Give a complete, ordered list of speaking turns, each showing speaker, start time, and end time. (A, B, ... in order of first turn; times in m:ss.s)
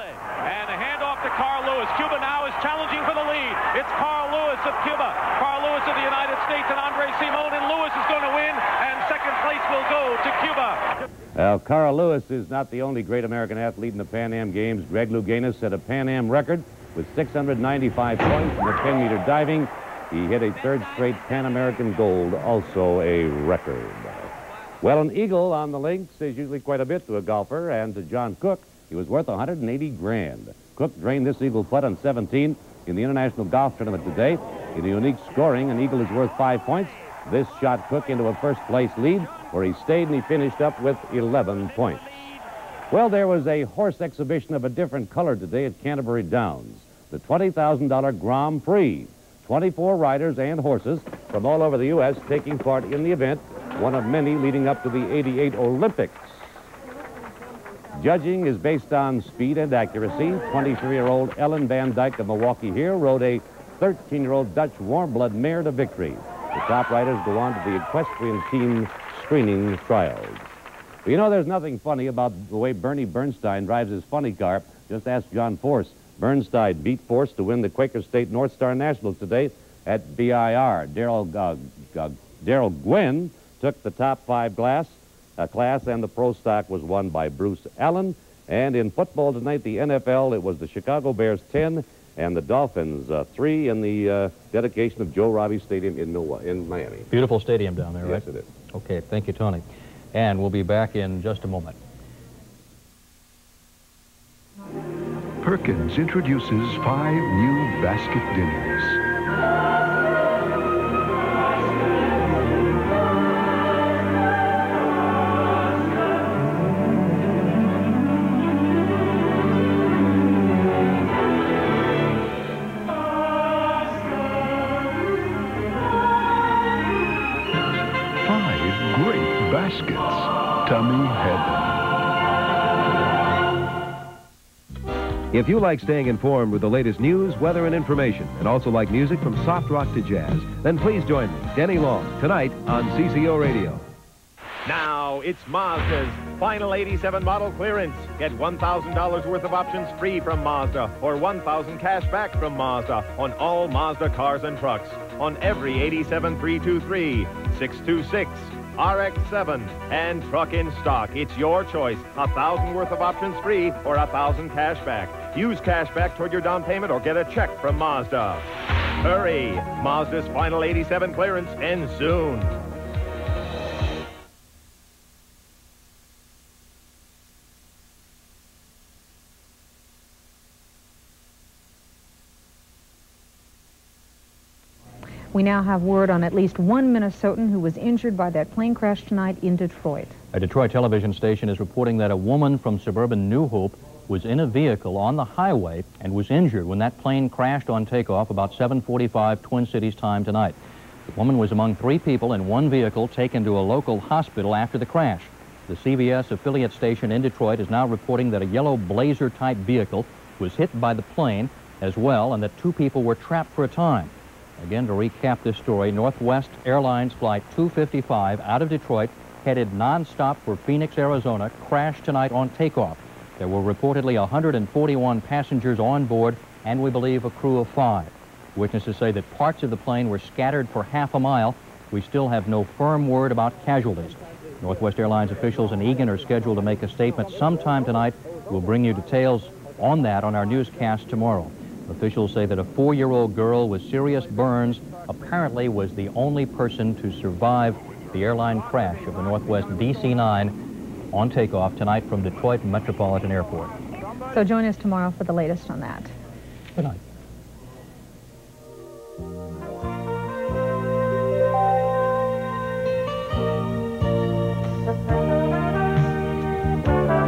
0:00.2-0:10.8 A
0:11.4-0:42.2 B
0:42.9-0:56.4 B
0:58.0-1:10.5 B
1:11.0-1:37.1 B
1:37.1-1:41.8 C
1:38.0-1:38.5 B
1:45.4-1:49.0 D
2:08.2-2:11.9 D
2:15.3-2:23.8 E
2:24.7-2:48.5 F
2:49.0-2:52.5 F
3:05.3-3:10.2 G
3:10.3-3:20.6 C
3:21.1-4:10.6 C
4:11.1-4:13.7 C
4:14.3-4:16.1 G